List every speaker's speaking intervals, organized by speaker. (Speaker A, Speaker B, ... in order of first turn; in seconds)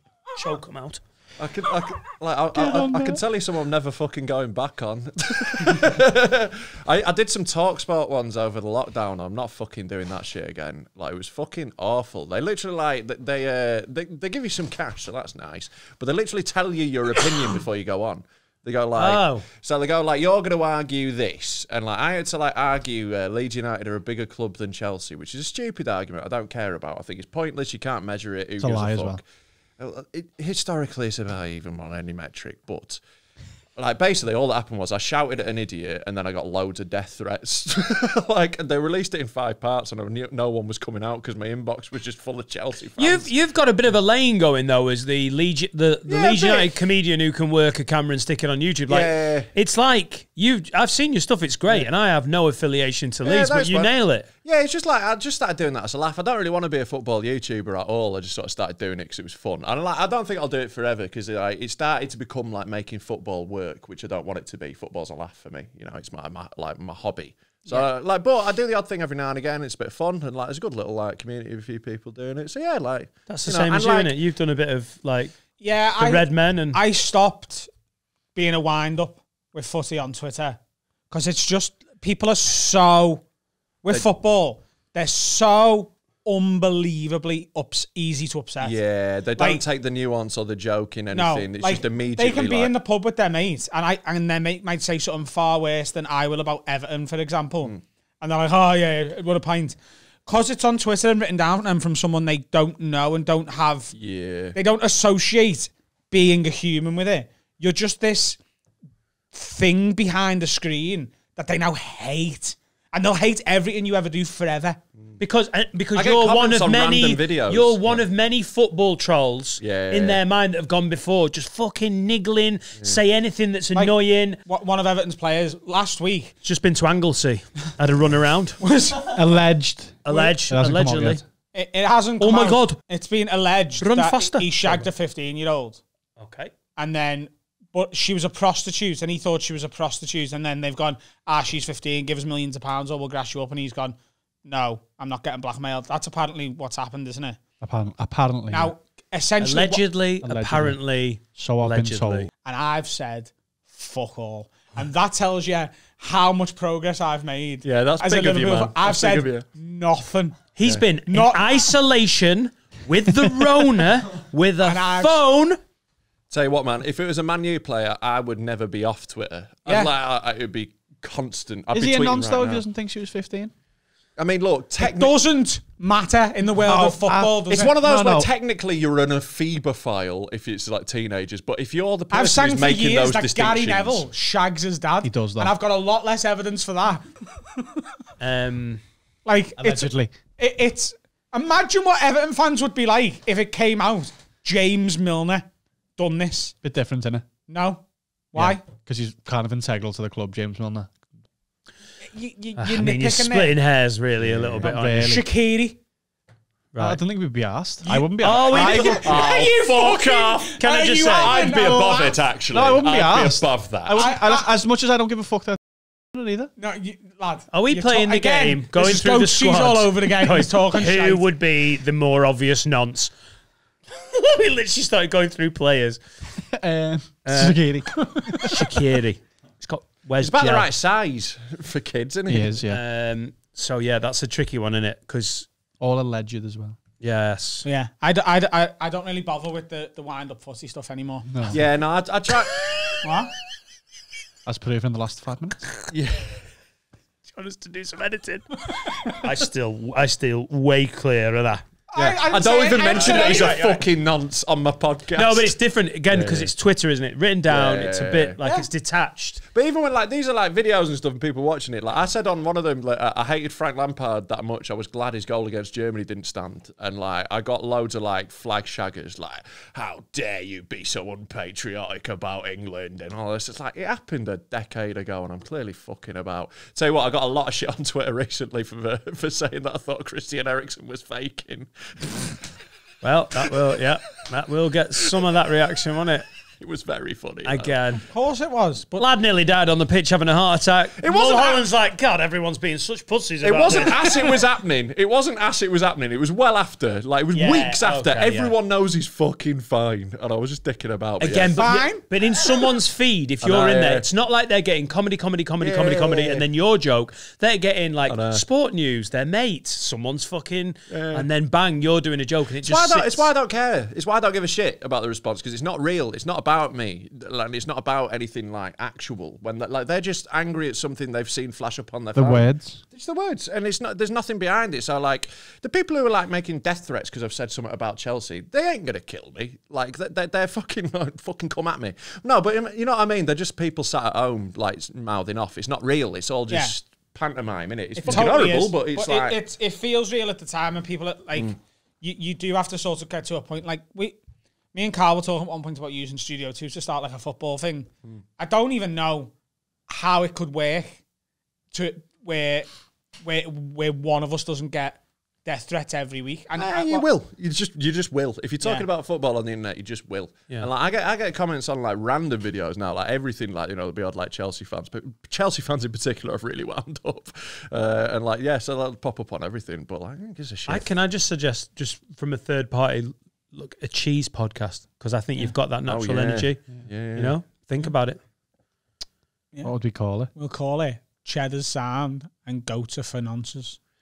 Speaker A: 0.3-1.0, 19.0-19.5, 43.0-54.3, 73.3-75.4, 76.0-76.8, 115.2-124.4, 126.5-128.6, 130.1-131.2, 132.2-132.8, 133.8-134.9, 136.2-136.5, 149.4-152.3, 160.6-165.6, 188.2-188.8, 202.6-205.2, 206.7-207.0, 208.2-209.3, 210.6-211.8, 217.5-223.1, 223.9-226.0, 227.2-227.6, 228.4-230.7, 232.7-235.5, 237.0-237.7, 247.3-251.7, 252.8-253.8, 255.2-259.4, 283.0-286.3, 287.4-288.0, 289.0-294.4, 297.3-298.6, 301.2-313.3, 370.7-378.2
Speaker B: 1.4-29.2, 29.8-33.0, 33.8-43.3, 46.1-46.8, 48.9-49.5, 53.2-53.9, 54.4-74.2, 88.6-92.7, 103.9-104.6, 116.0-118.0, 119.6-120.2, 157.6-159.5, 166.3-172.6, 174.2-175.2, 177.5-184.1, 204.2-204.7, 209.0-214.1, 230.2-232.6, 241.5-242.7, 245.9-246.4, 252.0-255.6, 256.1-256.5, 257.5-258.4, 259.5-282.2, 286.6-287.8, 291.0-291.6, 293.4-301.6, 303.4-304.1, 305.6-306.5, 308.1-308.4, 310.9-311.3, 312.6-339.4, 356.6-370.9, 375.9-377.4
Speaker C: 2.5-3.2, 28.6-29.2, 129.2-131.2, 147.6-148.7, 150.2-150.8, 151.3-152.3, 171.7-173.5, 176.7-178.3, 185.0-185.6, 189.6-190.1, 196.6-197.2, 198.3-200.9, 204.6-205.3, 206.8-209.1, 212.5-216.5, 226.5-228.5, 232.3-232.8, 235.8-236.8, 241.3-241.6, 244.5-245.6, 322.1-322.8, 379.6-380.3
Speaker D: 75.6-77.7, 78.3-80.6, 81.1-83.2, 83.8-88.8, 89.3-89.6, 91.1-103.9, 104.5-108.4, 109.3-114.8, 123.8-126.3, 128.6-129.2, 131.5-135.8, 136.8-147.4, 148.5-149.8, 152.4-160.4, 161.1-161.5, 164.6-165.2, 169.7-169.9, 174.8-177.8, 182.1-187.1, 189.2-196.5, 197.5-198.6, 202.1-203.5, 204.8-205.8, 207.9-212.2, 214.0-214.5, 216.6-221.2, 237.7-241.3, 243.0-243.3, 248.8-249.2, 251.9-253.7, 258.4-258.7, 288.1-289.1, 301.6-302.1, 336.5-336.8, 337.9-344.2, 344.7-349.3, 349.9-351.0, 351.7-352.7, 353.2-357.1, 380.3-383.8